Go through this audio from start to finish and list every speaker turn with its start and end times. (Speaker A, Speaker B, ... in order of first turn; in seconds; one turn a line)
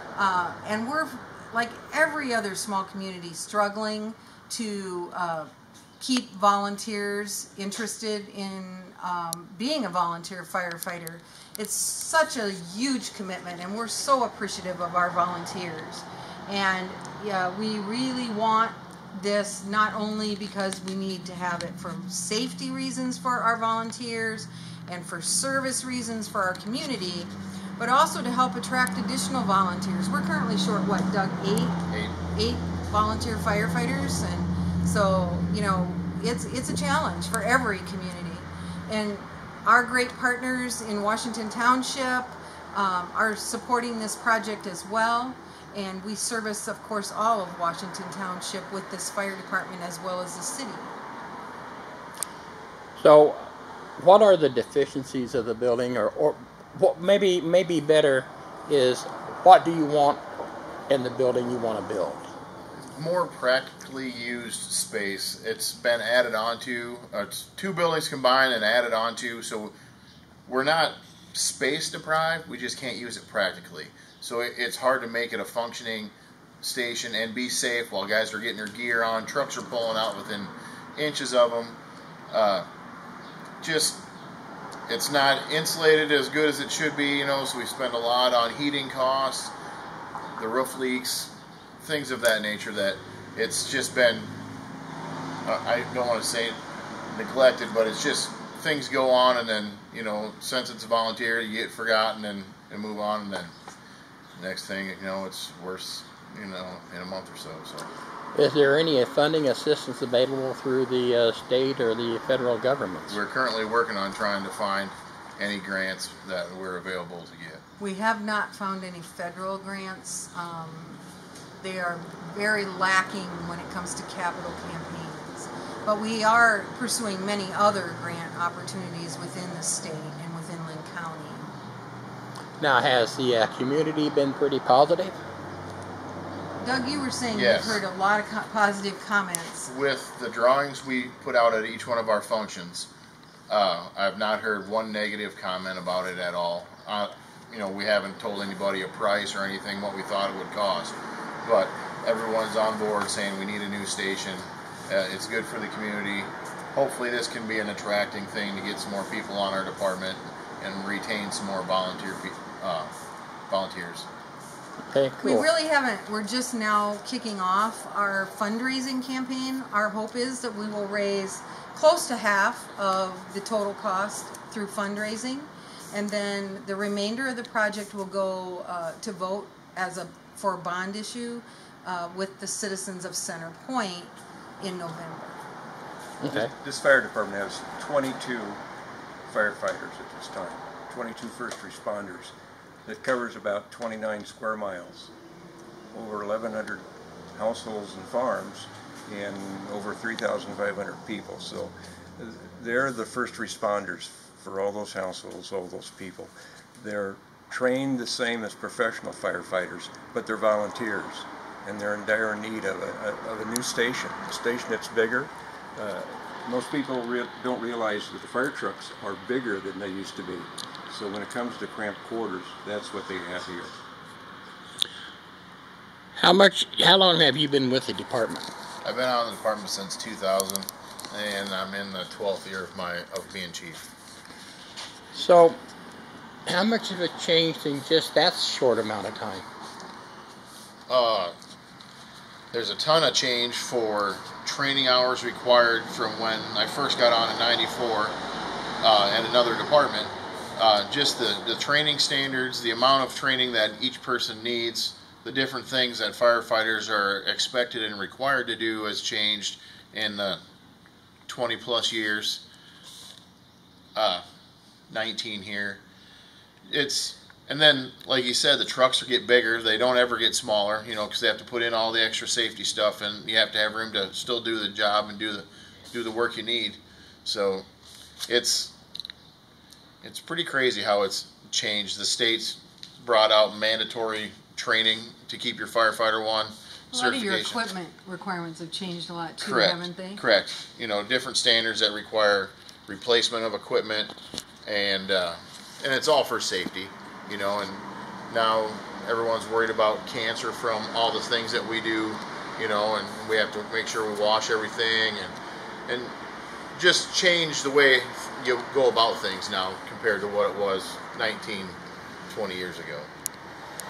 Speaker A: 0.1-50.9
Speaker B: 31.9-32.1
Speaker C: 53.0-60.2
Speaker C: 60.9-62.3
Speaker B: 62.8-69.7
Speaker B: 70.5-81.8
Speaker B: 82.3-82.7
Speaker B: 83.6-84.0
Speaker B: 84.9-89.5
Speaker B: 90.4-94.3
Speaker B: 95.4-96.6
Speaker B: 97.1-103.5
Speaker B: 104.3-107.9
Speaker C: 108.3-113.2
Speaker B: 113.1-117.6
Speaker A: 117.8-121.0
Speaker A: 121.6-131.5
Speaker C: 132.6-135.2
Speaker A: 136.6-139.7
Speaker B: 137.3-137.8
Speaker B: 139.7-142.9
Speaker B: 143.5-162.9
Speaker B: 163.5-164.1
Speaker C: 164.9-165.4
Speaker A: 165.2-185.4
Speaker C: 186.2-186.5
Speaker D: 186.3-188.6
Speaker D: 189.3-192.3
Speaker D: 192.8-195.1
Speaker D: 195.9-223.8
Speaker C: 226.1-228.5
Speaker B: 228.8-233.8
Speaker C: 235.1-235.6
Speaker C: 236.4-239.4
Speaker B: 240.9-241.3
Speaker B: 242.5-248.2
Speaker B: 248.8-260.4
Speaker B: 261.3-262.4
Speaker B: 263.9-264.2
Speaker B: 264.9-265.8
Speaker B: 266.6-277.6
Speaker B: 278.3-278.7
Speaker B: 280.0-287.6
Speaker A: 286.9-290.2
Speaker B: 289.4-294.1
Speaker B: 294.6-305.3
Speaker B: 305.9-306.1
Speaker B: 306.7-311.8
Speaker B: 312.3-313.1